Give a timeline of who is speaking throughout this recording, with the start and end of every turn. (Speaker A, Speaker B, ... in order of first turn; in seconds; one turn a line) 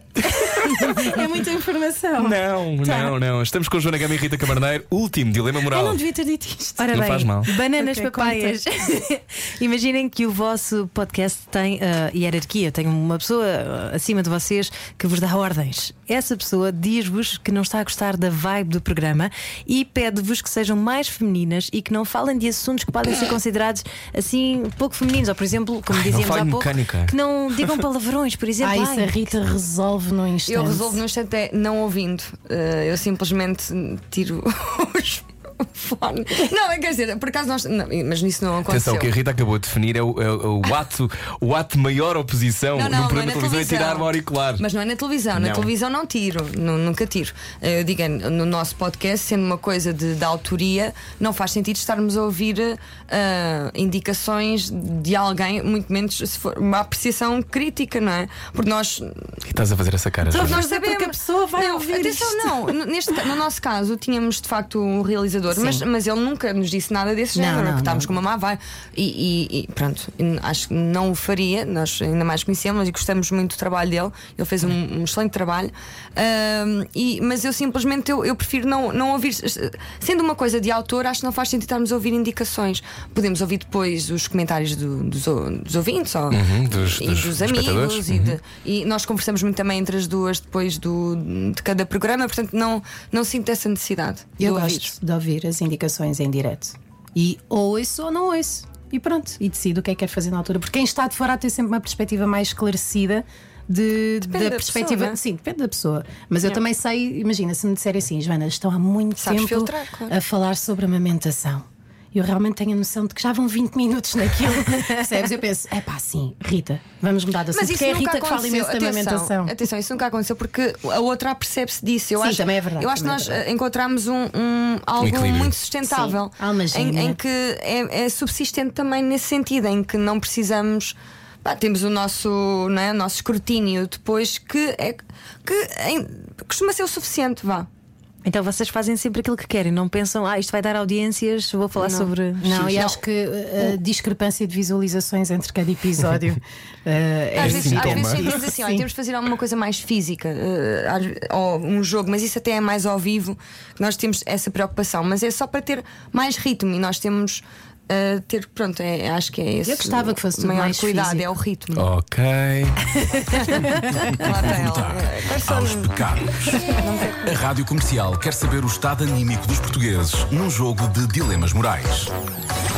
Speaker A: 0.2-1.2
Speaker B: 0.2-3.1
Speaker A: 2.2-6.0
Speaker B: 5.7-8.6
Speaker C: 6.8-29.3
Speaker A: 6.9-7.5
Speaker A: 25.9-27.1
Speaker B: 28.6-31.0
Speaker D: 30.4-39.1
Speaker A: 38.7-44.6
Speaker D: 42.7-59.4
Speaker A: 45.3-45.7
Speaker A: 59.4-60.6
Speaker B: 60.2-62.6
Speaker D: 60.4-94.9
Speaker B: 65.5-65.8
Speaker B: 67.3-68.2
Speaker A: 86.3-88.4
Speaker B: 94.4-119.5
Speaker D: 104.2-105.2
Speaker D: 109.2-110.1
Speaker D: 117.5-137.7
Speaker B: 122.2-123.4
Speaker A: 125.0-125.5
Speaker B: 125.8-127.2
Speaker C: 138.2-142.9
Speaker D: 141.8-142.1
Speaker B: 142.4-148.8
Speaker D: 147.3-161.9
Speaker A: 147.4-148.3
Speaker B: 159.6-161.3
Speaker A: 161.7-163.0
Speaker D: 163.3-167.4
Speaker E: 164.5-166.7
Speaker E: 167.2-172.1